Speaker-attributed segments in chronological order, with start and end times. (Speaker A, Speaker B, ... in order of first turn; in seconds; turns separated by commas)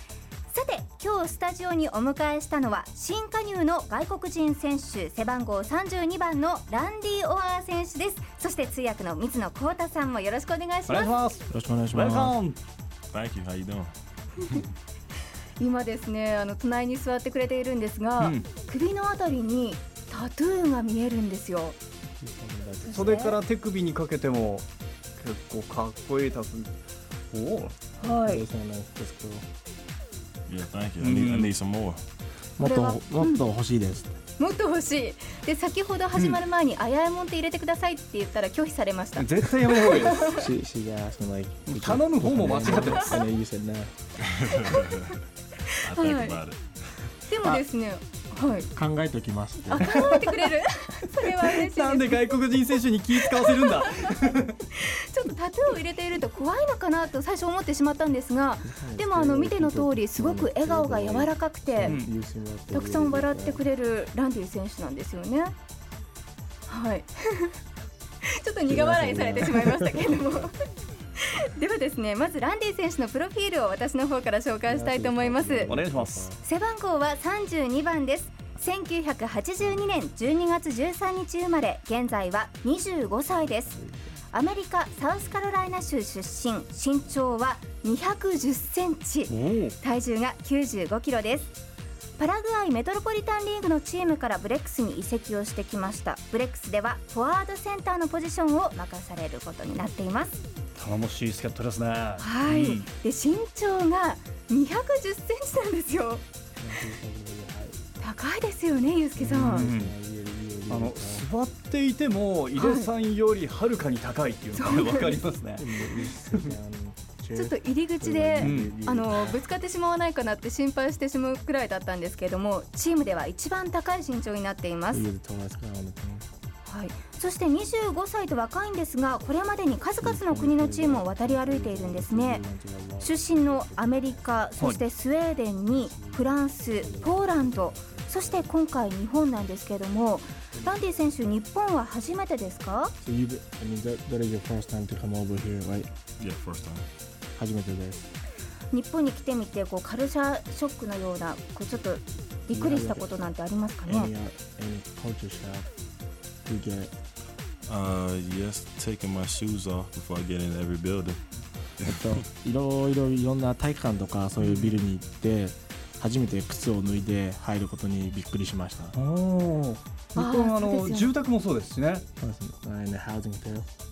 Speaker A: 0.5-11.2, Speaker B: 10.9-12.6, Speaker C: 11.5-12.4, Speaker D: 13.1-14.7, Speaker A: 15.6-21.8, Speaker B: 18.2-18.5, Speaker C: 22.2-23.1, Speaker A: 22.8-23.4, Speaker B: 22.9-26.7, Speaker B: 27.3-27.8, Speaker A: 28.0-28.4, Speaker C: 28.0-29.4, Speaker D: 30.5-32.0, Speaker B: 31.0-31.5, Speaker C: 32.6-34.1, Speaker A: 32.6-33.4, Speaker A: 34.4-40.3, Speaker B: 39.2-40.4, Speaker C: 40.3-44.0, Speaker B: 41.7-43.3, Speaker D: 44.3-45.2, Speaker D: 45.7-46.6, Speaker A: 45.9-46.4, Speaker A: 47.2-48.7, Speaker C: 47.4-47.6, Speaker C: 48.7-50.1, Speaker A: 49.7-52.4, Speaker B: 50.0-50.5, Speaker B: 51.2-54.5, Speaker A: 53.3-54.1, Speaker A: 54.7-62.0, Speaker C: 58.6-63.6, Speaker B: 61.9-62.1, Speaker A: 62.7-65.5, Speaker A: 66.7-67.5, Speaker A: 68.2-70.5, Speaker C: 68.7-70.4, Speaker A: 71.2-75.7, Speaker C: 74.7-76.4, Speaker B: 75.7-76.3, Speaker A: 76.4-83.7, Speaker C: 79.6-79.9, Speaker C: 83.3-84.2, Speaker A: 84.3-91.5, Speaker B: 89.3-89.8, Speaker A: 92.2-100.4, Speaker B: 100.8-102.9, Speaker A: 102.2-106.2, Speaker C: 106.6-107.8, Speaker A: 108.0-109.7, Speaker C: 109.2-111.3, Speaker B: 109.3-109.9, Speaker B: 110.7-116.5, Speaker A: 112.6-112.9, Speaker A: 114.6-115.2, Speaker C: 115.6-119.4, Speaker A: 117.3-125.1, Speaker B: 118.4-118.8, Speaker C: 124.9-126.3, Speaker A: 126.7-132.4, Speaker C: 130.0-134.8, Speaker A: 133.0-142.9, Speaker C: 135.7-138.5, Speaker C: 140.5-141.3, Speaker C: 143.0-145.9, Speaker D: 146.2-146.9, Speaker C: 147.4-148.1, Speaker A: 148.7-154.1, Speaker C: 152.5-153.2, Speaker C: 153.8-155.7, Speaker C: 156.4-156.9, Speaker D: 157.7-161.2, Speaker D: 161.8-162.2, Speaker C: 161.8-169.0, Speaker D: 164.4-164.7, Speaker B: 168.9-172.0, Speaker A: 170.2-171.1, Speaker C: 172.2-173.7